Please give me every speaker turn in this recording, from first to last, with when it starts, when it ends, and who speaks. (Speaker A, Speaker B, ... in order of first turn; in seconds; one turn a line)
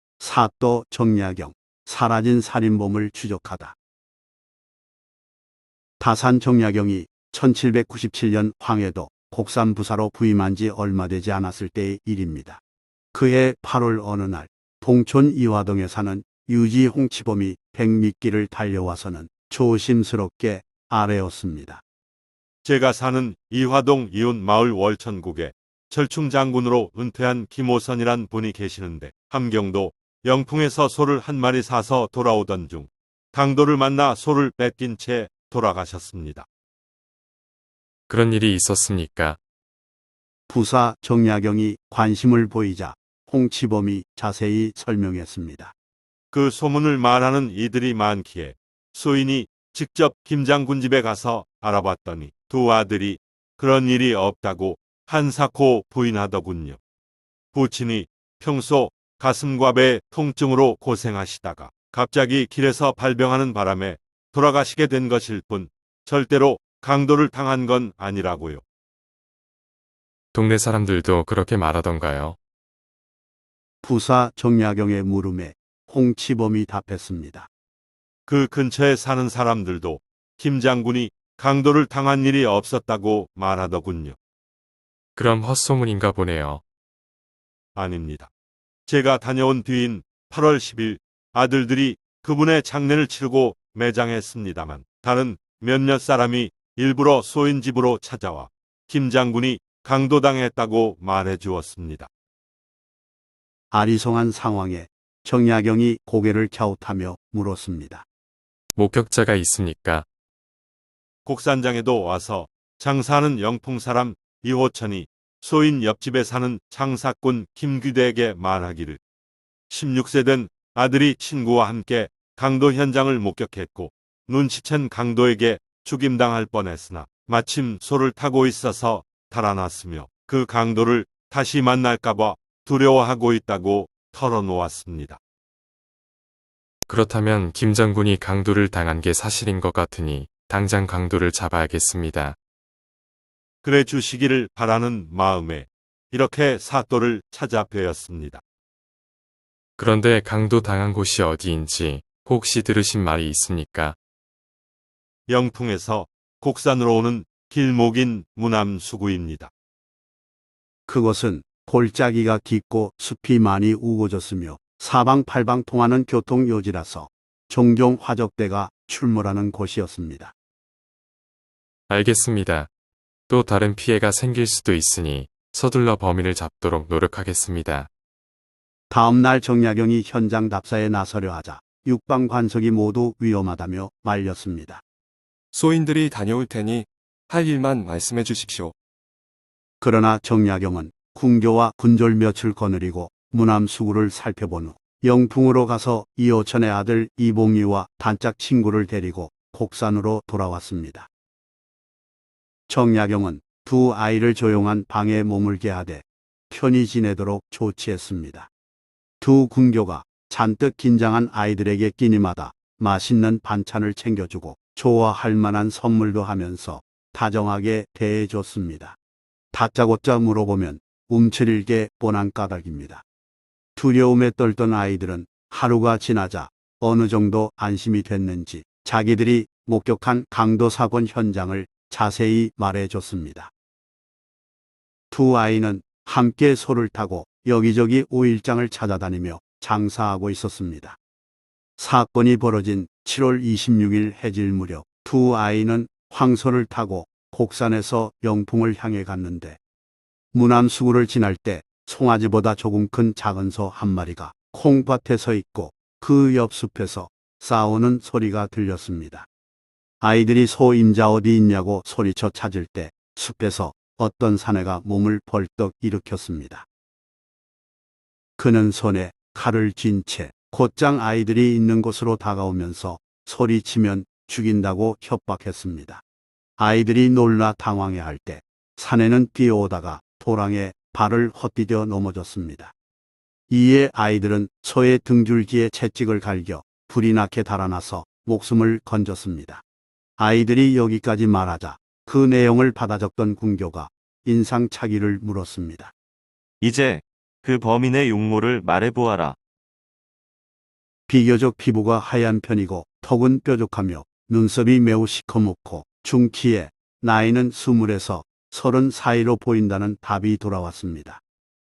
Speaker A: 0.2-3.8
Speaker A: 6.0-12.6
Speaker A: 13.1-21.8
Speaker B: 22.6-36.5
Speaker C: 38.1-39.4
Speaker A: 40.5-45.7
Speaker B: 46.3-56.8
Speaker B: 57.5-68.6
Speaker C: 70.3-72.4
Speaker A: 73.8-77.5
Speaker B: 78.3-84.2
Speaker C: 85.2-86.6
Speaker B: 87.8-88.3
Speaker B: 88.9-102.1
Speaker A: 103.7-108.0
Speaker C: 108.7-110.0
Speaker B: 111.2-119.0
Speaker B: 119.7-135.2
Speaker C: 136.8-142.4
Speaker B: 143.6-148.4
Speaker C: 149.8-153.9
Speaker B: 155.3-159.5
Speaker A: 160.9-170.3
Speaker C: 171.9-172.7
Speaker C: 173.3-177.9
Speaker A: 178.9-184.8
Speaker D: 185.5-188.7
Speaker A: 189.8-201.1
Speaker A: 202.7-208.5
Speaker A: 209.2-219.0
Speaker A: 219.5-223.0
Speaker A: 223.8-233.5
Speaker A: 235.1-241.0
Speaker A: 241.8-249.6
Speaker A: 250.3-259.3
Speaker A: 260.0-266.6
Speaker A: 268.4-276.0
Speaker A: 276.6-282.7
Speaker A: 283.5-289.6
Speaker A: 290.2-295.9
Speaker E: 296.6-299.4
Speaker A: 301.1-311.2